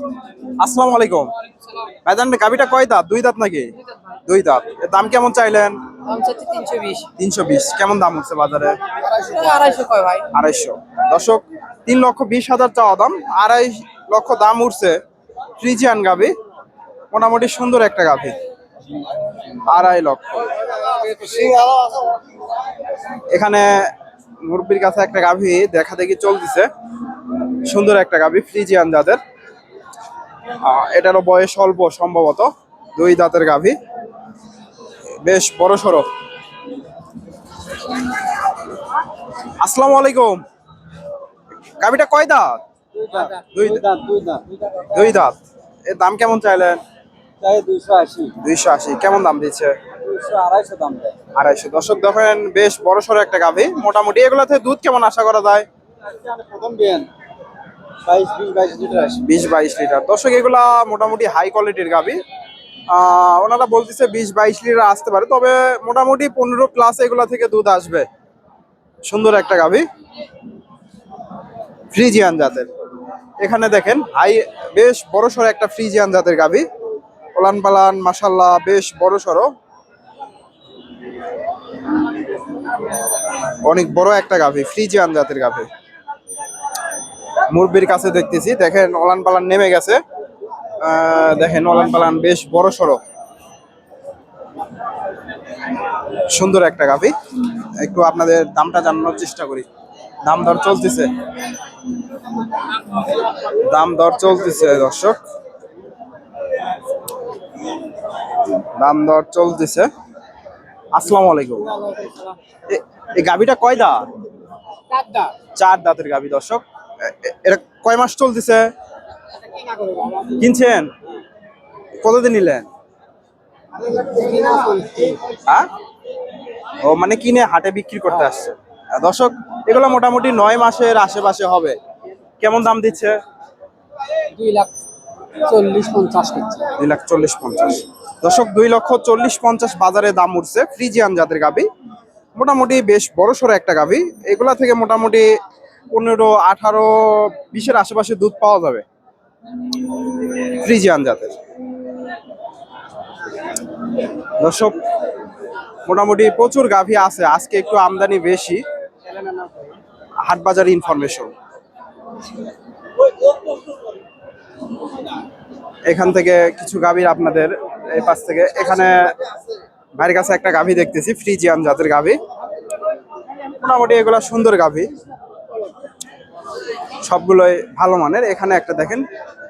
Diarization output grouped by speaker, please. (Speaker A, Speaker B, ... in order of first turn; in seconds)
Speaker A: 0.6-1.3, 2.0-3.7, 4.3-5.8, 7.2-8.8, 10.3-15.0, 15.6-16.3, 17.1-18.4, 19.7-20.5, 23.3-23.9, 24.4-26.7, 27.7-29.2, 30.6-33.8, 35.2-36.1, 39.6-40.4, 41.8-42.6, 43.5-43.8, 44.9-46.8, 48.4-49.8, 51.4-55.7, 59.2-62.2, 62.9-68.1, 69.0-69.8, 71.9-72.7, 73.4-76.7, 77.4-79.5, 83.6-85.7, 87.5-90.0, 90.8-93.0, 96.3-97.1, 97.8-99.7, 100.2-101.1, 103.5-105.2, 108.8-109.9, 111.0-111.7, 112.7-114.1, 115.5-118.7, 120.3-120.9, 122.0-122.7, 126.8-131.8, 132.4-133.2, 136.8-141.7, 142.4-145.3, 145.9-148.8, 150.3-151.4, 154.4-154.8, 155.9-158.6, 160.2-161.3, 165.9-169.1, 170.0-172.2, 173.5-174.9, 177.0-179.1
Speaker B: 6.1-7.1, 9.1-10.3, 115.0-115.3, 119.8-120.2, 124.0-125.2, 134.3-134.7, 135.4-136.7
Speaker C: 21.0-21.9, 43.0-44.9, 47.4-48.4, 50.0-51.1, 56.1-57.1, 58.0-59.2, 159.1-159.5